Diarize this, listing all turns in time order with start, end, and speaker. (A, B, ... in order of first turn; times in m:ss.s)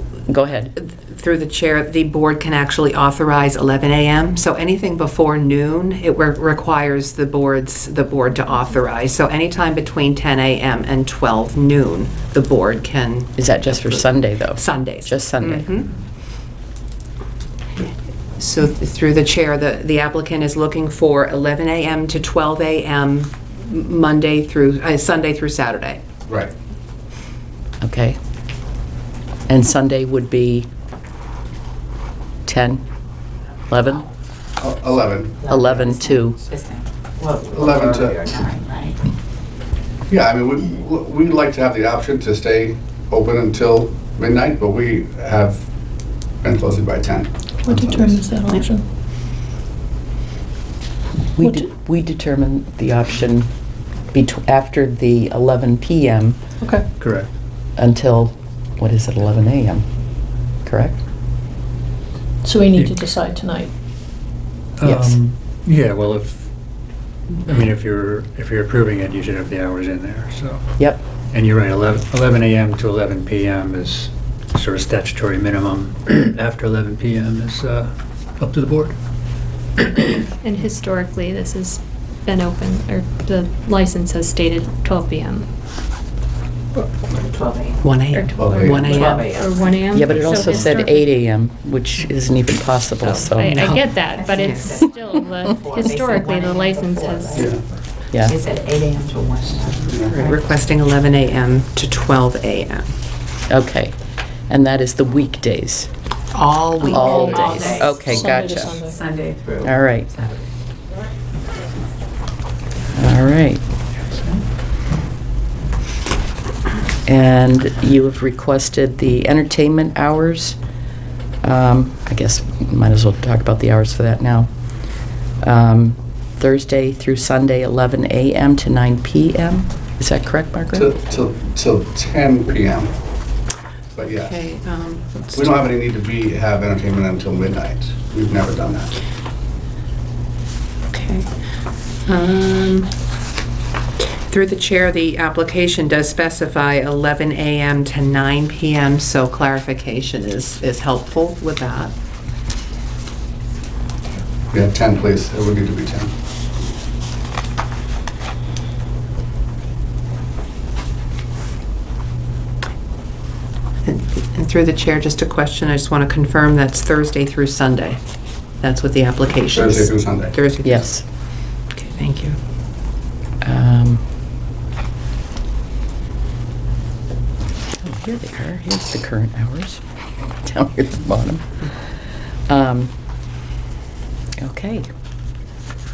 0:00.3-0:00.7 A
0:00.8-0:15.9 B
0:13.4-0:15.7 A
0:18.4-0:26.0 B
0:26.3-0:26.5 C
0:27.8-0:28.2 A
0:29.5-0:30.7 A
0:32.4-0:32.8 A
0:33.7-0:34.0 A
0:34.6-0:35.4 C
0:35.4-0:39.0 D
0:35.5-0:36.4 A
0:37.5-0:38.2 C
0:40.1-0:45.7 C
0:46.4-0:48.2 C
0:48.1-0:48.6 E
0:51.4-0:53.5 A
0:54.1-0:56.4 A
0:57.0-0:57.3 F
0:57.8-0:59.8 A
1:00.6-1:01.0 A
1:02.4-1:03.7 E
1:02.7-1:03.1 F
1:04.8-1:06.5 F
1:04.8-1:05.2 A
1:07.4-1:10.7 F
1:10.8-1:11.0 A
1:11.3-1:19.0 F
1:20.4-1:25.5 G
1:27.1-1:28.0 D
1:27.8-1:29.3 B
1:28.1-1:31.1 G
1:28.3-1:29.1 C
1:28.8-1:30.5 D
1:29.9-1:33.8 A
1:33.0-1:37.5 G
1:34.1-1:37.6 D
1:34.3-1:34.6 B
1:37.4-1:37.6 C
1:38.2-1:40.5 D
1:39.8-1:40.2 C
1:40.1-1:42.9 B
1:43.5-1:43.9 A
1:44.5-1:45.9 A
1:46.3-1:48.0 B
1:46.8-1:48.3 D
1:46.8-1:48.8 A
1:48.3-1:48.9 E
1:48.8-1:49.7 D
1:49.6-1:50.2 A
1:52.9-1:53.6 A
1:57.0-2:00.6 A
2:01.4-2:04.5 A
2:05.4-2:10.9 A
2:10.7-2:12.9 C
2:14.0-2:14.4 C
2:14.1-2:15.5 B
2:15.3-2:18.9 C
2:20.9-2:21.3 B
2:22.0-2:22.9 B
2:24.2-2:31.9 B
2:34.5-2:36.1 C
2:43.8-2:48.0 B
2:48.6-2:50.9 B
2:49.5-2:50.4 C
2:50.6-2:51.0 A
2:51.7-2:52.4 B
2:53.4-2:54.0 A
2:57.8-3:01.5 A
3:02.5-3:02.9 A
3:04.4-3:04.9 A